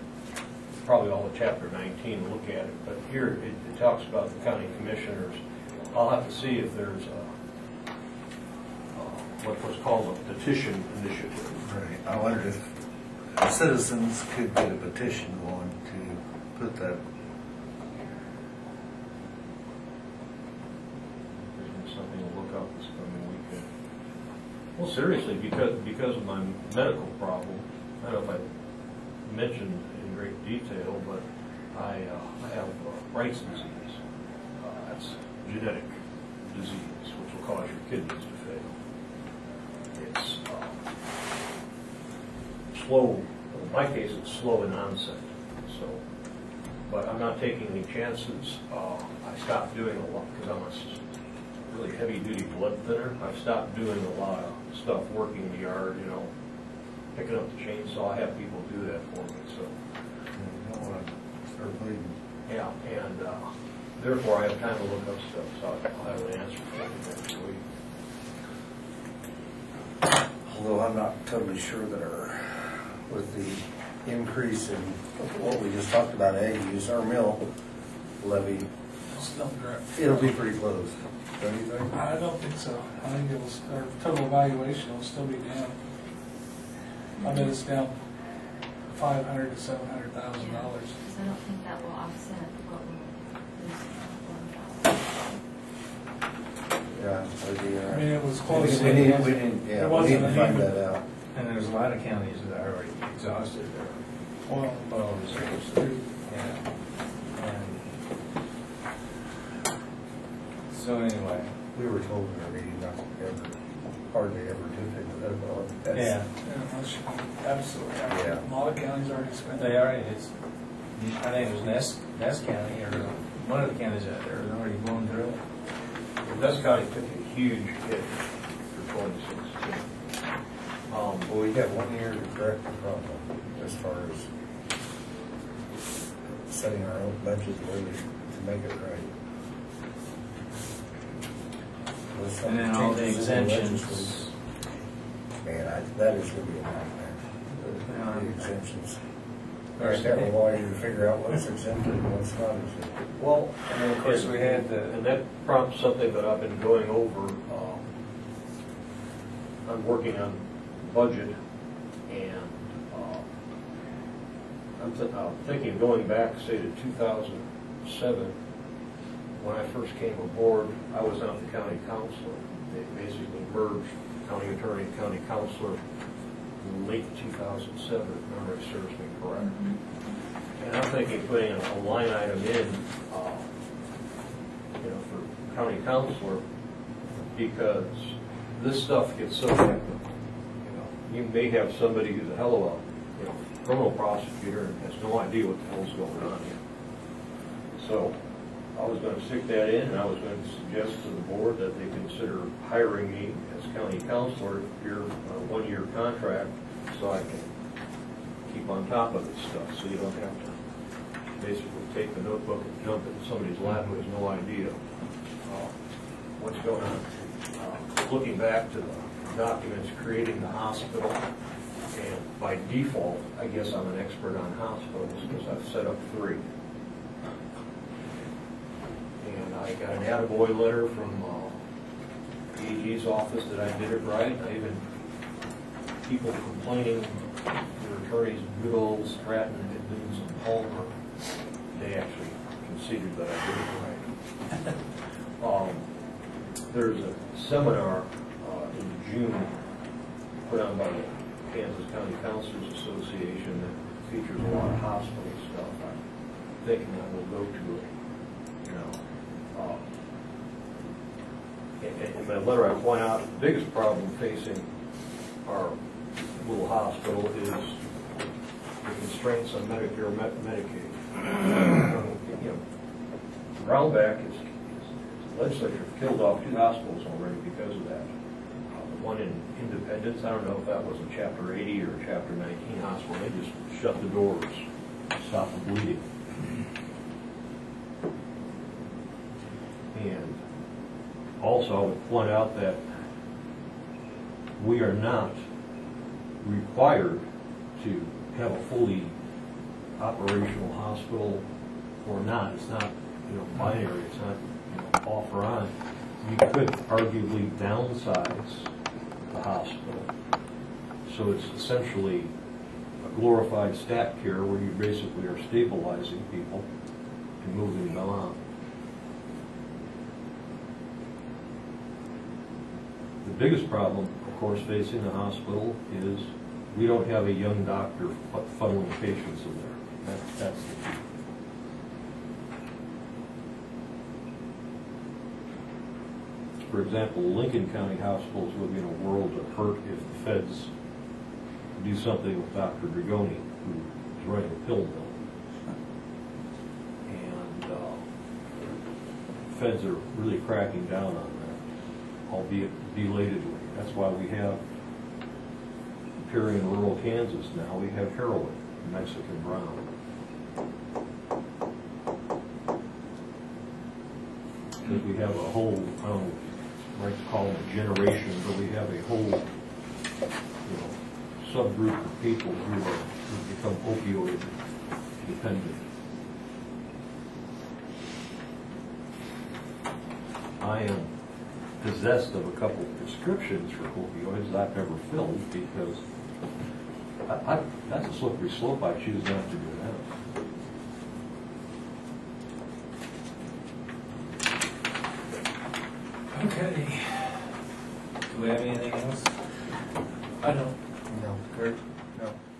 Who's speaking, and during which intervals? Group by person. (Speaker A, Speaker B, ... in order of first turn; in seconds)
Speaker A: 0.8-7.3, 8.9-11.6, 21.5-23.7, 24.8-28.4, 29.2-34.0, 34.6-38.8, 39.9-40.8, 42.7-46.0, 46.9-51.0, 51.7-56.3, 57.1-59.8, 62.5-67.6, 126.2-129.9, 130.9-131.3, 149.8-150.2, 153.2-157.8, 159.7-161.3, 162.1-163.2, 164.8-168.3, 169.3-175.8, 176.6-179.5, 180.6-183.5, 184.8-186.4, 187.3-189.9, 190.6-196.6, 197.7-198.2, 198.7-207.5, 208.4-210.6, 211.4-214.8, 215.4-215.7, 216.4-221.2, 221.9-226.5, 229.2-231.6, 232.5-234.8, 236.0-237.2, 237.7-240.9, 241.7-244.1, 245.4-245.8, 246.7-249.5, 250.4-256.0, 256.6-257.9, 258.6-259.0, 259.5-259.8, 261.8-264.7, 265.4-265.8, 266.4-267.8, 268.8-272.6, 273.5-278.1, 278.7-284.6, 285.2-286.0, 289.9-290.4, 291.4-292.8, 294.6-295.4, 296.4-297.2, 297.8-299.1, 300.0-301.4, 302.0-308.7, 309.3-310.1, 311.0-312.3, 313.0-316.6, 317.4-318.4, 323.2-331.0, 336.7-340.7, 341.8-345.2, 347.1-348.0, 349.5-351.6, 352.3-354.6, 356.2-359.9, 364.8-366.4, 366.9-369.4, 370.6-374.5, 375.2-375.8, 380.6-381.1, 381.8-386.0, 387.2-390.1
Speaker B: 11.6-12.7, 13.3-17.0, 60.3-62.1, 70.4-77.5, 78.2-78.7, 79.9-82.0, 96.9-101.0, 111.7-116.2, 118.1-118.4, 131.3-134.3, 136.5-139.2, 142.1-144.3, 145.4-149.0, 149.8-153.0, 401.1-402.4
Speaker C: 79.2-80.4, 81.9-85.8, 87.2-88.0, 88.9-91.0, 97.9-100.7, 104.5-106.1, 116.4-119.8, 400.4-400.8
Speaker D: 87.2-87.5, 90.3-95.4, 179.4-179.8
Speaker E: 98.5-100.4, 101.3-104.0, 104.9-106.6, 107.3-107.8, 110.7-111.5, 115.9-116.3, 119.6-120.3, 120.9-125.4, 142.4-144.3, 147.9-148.4, 149.8-150.3, 153.8-154.6, 396.3-397.6, 398.3-399.3